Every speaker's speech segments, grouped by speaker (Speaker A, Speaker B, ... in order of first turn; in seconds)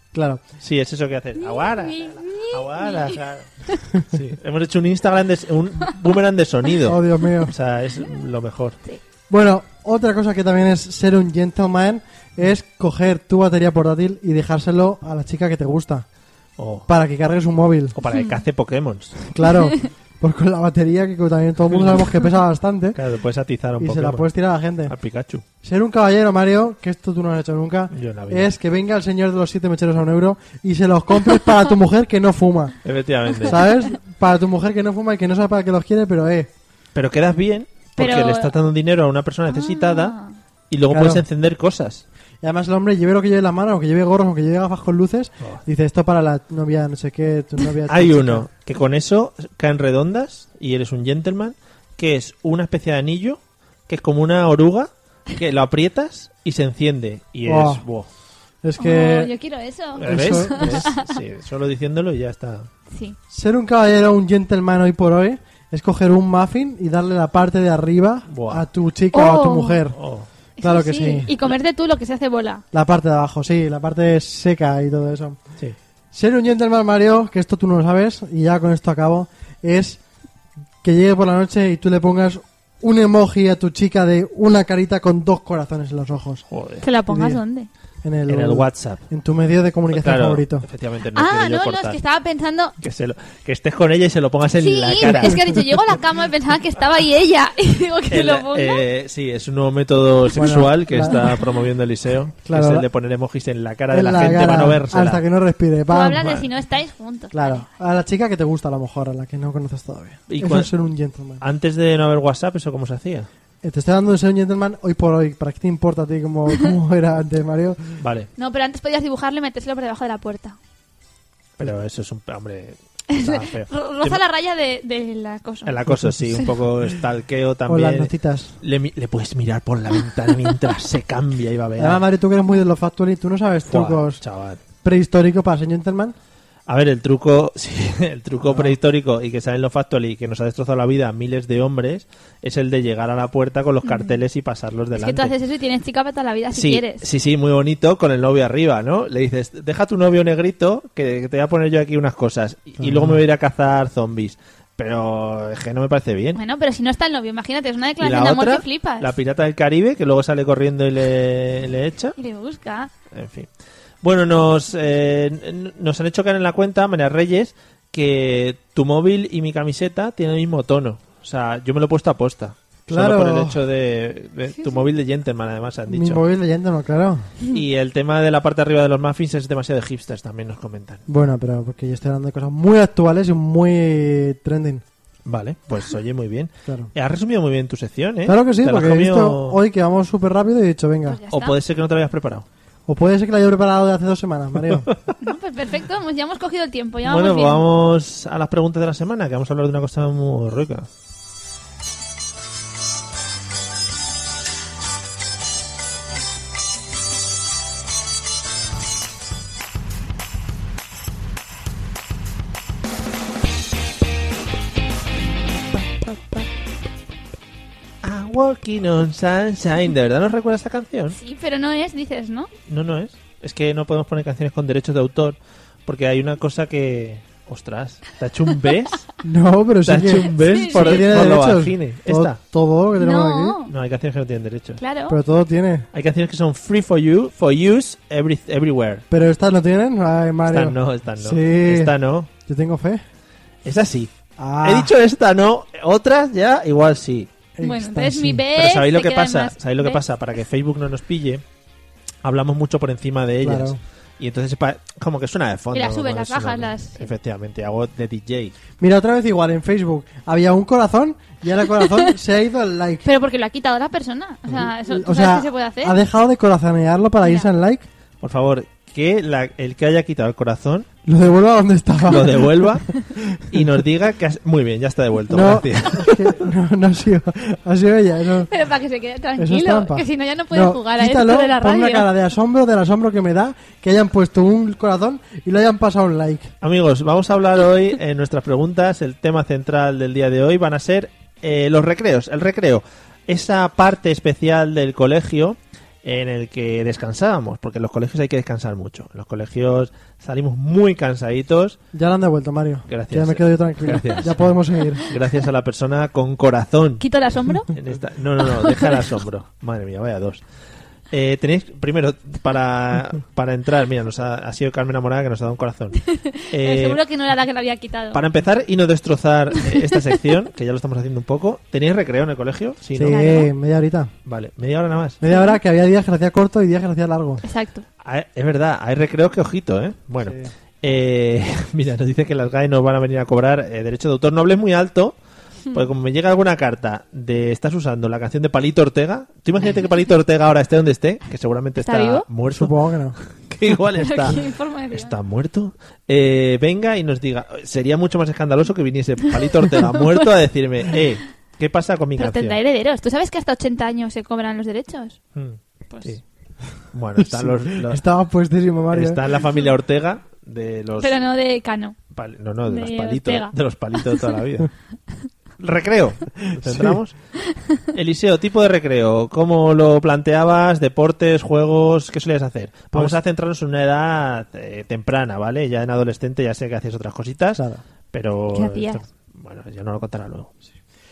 Speaker A: 0.1-0.4, 6.8-7.5, 9.3-16.1, 16.9-18.0, 19.3-23.0, 23.8-24.9, 25.6-32.8, 33.5-36.5, 40.9-41.2, 42.4-48.5, 57.5-57.8, 58.6-59.3, 60.0-60.9, 63.3-70.0, 70.6-71.3, 72.7-75.4, 76.1-80.0, 80.8-86.5, 87.1-87.4, 88.0-90.7, 100.3-101.3, 102.5-102.9, 103.9-106.2, 107.3-111.4, 113.6-118.0, 127.7-128.6, 131.8-134.2, 134.8-136.2, 138.5-138.8, 152.8-153.2, 172.9-173.6, 175.9-177.3, 181.1-184.8, 188.2-191.2, 192.9-194.9, 229.2-233.6, 235.1-235.9, 239.1-243.0, 244.4-244.9, 247.6-248.4, 253.4-253.8, 258.8-263.0, 264.8-267.9, 271.1-273.7, 275.3-278.5, 279.4-286.5, 301.9-305.1, 322.9-324.1, 325.2-327.4, 330.2-330.5, 342.5-343.2, 357.2-359.2, 366.4-367.0, 377.6-377.8
Speaker B: 0.6-8.8, 16.6-16.9, 18.0-19.2, 22.9-24.2, 24.9-25.4, 27.9-28.5, 32.8-33.7, 37.0-40.1, 40.7-42.0, 47.9-58.1, 60.0-62.7, 68.3-68.7, 69.9-70.3, 86.5-86.9, 88.3-89.0, 89.9-92.0, 92.8-95.6, 98.1-105.2, 110.3-110.7, 111.4-113.3, 118.0-118.3, 121.6-124.2, 125.7-132.1, 133.7-134.6, 136.7-145.3, 146.5-156.4, 158.0-162.2, 163.1-163.5, 164.0-176.2, 177.5-181.0, 185.3-189.6, 191.3-192.5, 197.1-200.9, 218.0-221.2, 222.7-229.0, 229.8-232.4, 233.7-234.8, 235.9-239.0, 240.5-242.3, 243.7-244.1, 244.6-247.3, 248.6-251.4, 252.2-258.6, 268.2-270.9, 272.1-272.9, 273.5-276.3, 286.6-301.8, 302.9-304.5, 305.1-307.0, 307.7-310.4, 311.1-317.0, 318.1-323.4, 324.3-325.2, 328.0-335.1, 335.7-342.7, 343.4-344.4, 344.9-352.6, 355.4-356.2, 356.9-358.0, 358.9-361.2, 362.1-364.7, 365.6-367.1, 367.9-380.5
Speaker C: 1.4-3.8, 18.1-18.4, 38.0-38.5, 39.5-40.3, 58.8-61.2, 62.9-63.2, 69.1-69.8, 70.6-72.6, 86.8-87.7, 91.2-92.8, 94.6-98.8, 101.0-101.3, 105.9-107.7, 118.4-120.6, 123.1-125.8, 143.8-144.2, 145.0-147.1, 156.3-159.1, 162.2-162.9, 191.1-191.6, 195.2-197.6, 221.1-222.5, 230.3-231.1, 233.0-233.7, 234.8-235.2, 247.6-250.0, 255.7-257.1, 263.0-266.0, 267.2-267.5, 278.5-282.1, 307.0-307.7, 308.4-309.1, 316.0-318.2, 319.7-320.0, 323.1-323.5, 325.2-325.6, 327.4-327.9, 341.8-342.2, 344.0-345.1, 349.9-350.2, 352.2-355.2, 355.9-356.2, 361.0-362.0, 362.7-364.4, 378.5-379.0